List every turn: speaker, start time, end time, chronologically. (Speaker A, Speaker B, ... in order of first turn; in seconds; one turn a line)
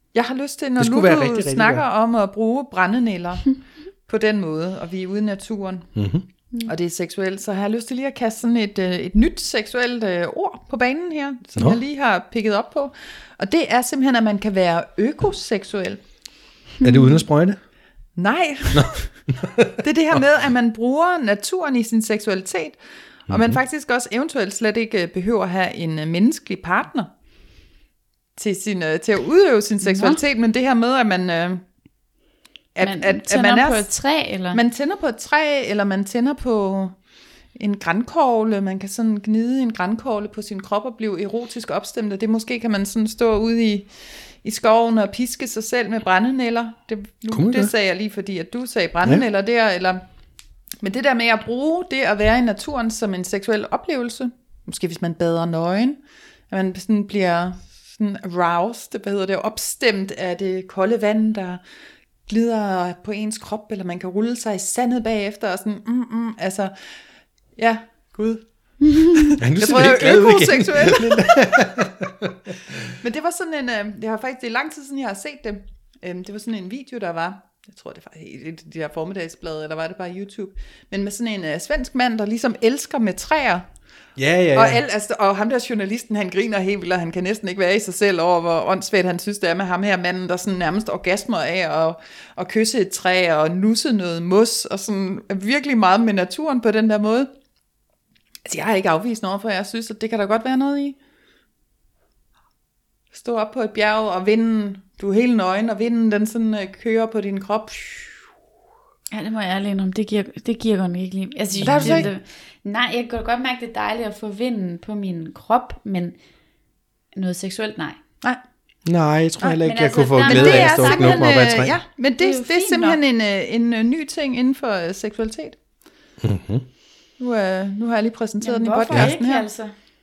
Speaker A: 0.1-5.9
Speaker B: 0.8-1.9
Speaker B: 6.0-6.2
Speaker A: 6.7-16.0
Speaker C: 16.8-17.2
Speaker B: 16.8-17.6
Speaker A: 18.1-22.8
Speaker B: 18.7-20.2
Speaker A: 23.3-27.1
Speaker B: 23.3-23.6
Speaker A: 28.4-31.6
Speaker C: 29.8-30.2
Speaker A: 32.8-33.9
Speaker C: 32.8-34.6
Speaker A: 34.5-36.9
Speaker A: 37.6-43.9
Speaker A: 44.4-50.0
Speaker B: 47.3-47.7
Speaker A: 50.8-61.6
Speaker A: 62.3-66.7
Speaker A: 67.6-68.4
Speaker C: 68.8-69.3
Speaker A: 69.0-71.7
Speaker B: 69.4-72.9
Speaker A: 73.0-83.7
Speaker B: 84.2-84.8
Speaker A: 84.5-97.3
Speaker A: 98.5-101.0
Speaker A: 103.1-108.2
Speaker C: 109.1-116.2
Speaker A: 111.6-112.1
Speaker B: 111.6-112.1
Speaker C: 117.1-118.0
Speaker B: 118.9-121.8
Speaker C: 119.6-121.3
Speaker A: 120.2-125.6
Speaker C: 122.2-123.0
Speaker B: 126.2-126.7
Speaker A: 127.2-129.5
Speaker C: 128.4-129.7